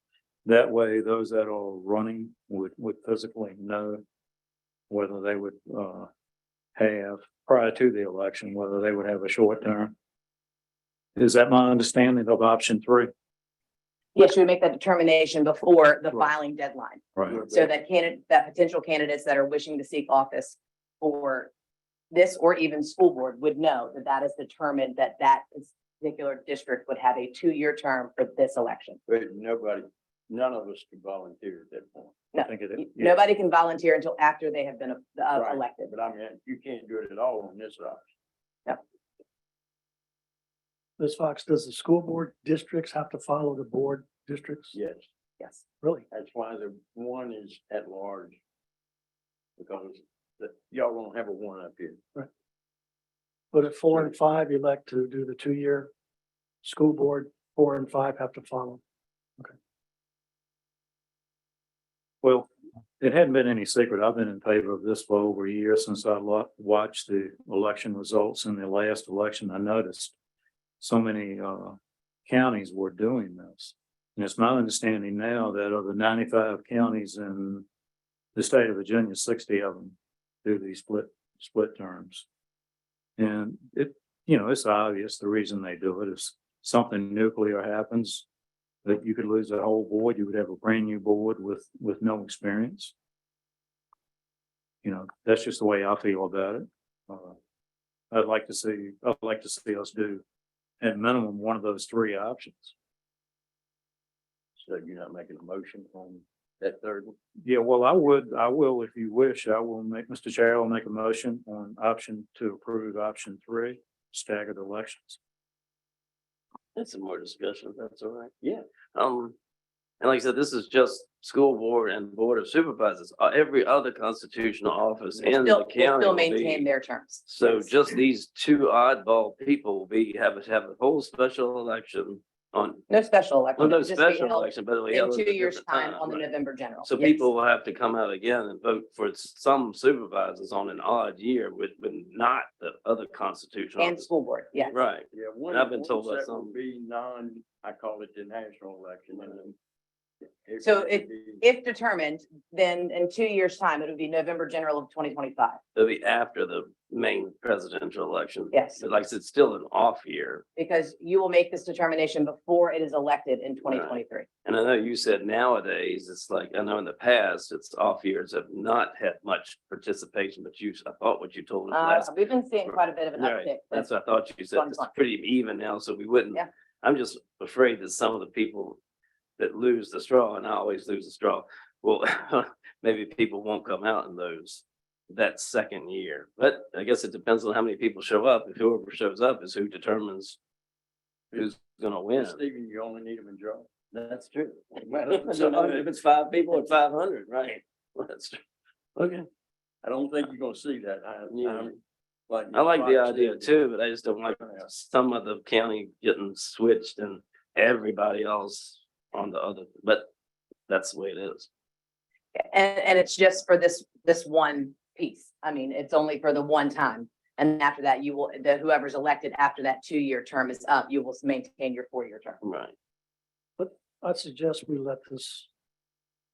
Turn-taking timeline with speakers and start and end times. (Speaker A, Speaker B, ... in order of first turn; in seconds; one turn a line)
Speaker A: 0.4-4.0
Speaker A: 4.9-6.1
Speaker A: 6.8-9.9
Speaker A: 11.2-13.1
Speaker B: 14.1-21.5
Speaker C: 17.3-17.7
Speaker B: 22.1-29.0
Speaker C: 29.1-32.1
Speaker B: 32.3-35.9
Speaker A: 32.4-33.1
Speaker C: 35.3-38.0
Speaker D: 41.0-44.8
Speaker C: 44.7-45.1
Speaker C: 46.1-48.4
Speaker C: 49.6-52.0
Speaker D: 53.5-55.9
Speaker D: 56.6-58.8
Speaker A: 62.2-62.5
Speaker A: 63.0-70.1
Speaker A: 70.8-77.6
Speaker A: 78.3-82.2
Speaker A: 83.2-88.2
Speaker A: 88.8-92.9
Speaker A: 94.8-97.4
Speaker A: 98.1-100.2
Speaker A: 100.8-102.7
Speaker C: 104.6-107.1
Speaker A: 107.4-115.2
Speaker E: 116.8-118.3
Speaker E: 118.9-119.3
Speaker E: 120.0-126.7
Speaker B: 125.2-127.7
Speaker E: 127.2-132.8
Speaker B: 132.9-137.3
Speaker E: 133.6-136.2
Speaker E: 136.8-144.1
Speaker B: 143.8-144.8
Speaker E: 144.7-146.6
Speaker C: 145.1-149.5
Speaker C: 150.4-151.4
Speaker B: 150.6-155.6
Speaker E: 155.7-160.4
Speaker B: 158.5-158.8
Speaker B: 160.6-164.2
Speaker E: 163.6-172.1
Speaker B: 171.7-173.9
Speaker E: 172.7-178.8
Speaker B: 174.5-174.9
Speaker E: 179.4-190.4
Speaker E: 191.3-192.4
Speaker C: 192.2-193.7
Speaker E: 193.9-198.4
Speaker C: 194.8-195.9
Speaker E: 198.9-199.3
Speaker C: 199.8-201.8
Speaker E: 201.3-201.8
Speaker C: 202.3-203.6
Speaker E: 202.5-210.1
Speaker C: 204.3-204.7
Speaker E: 210.7-211.5
Speaker B: 212.4-222.4
Speaker E: 222.4-222.7
Speaker D: 223.6-225.5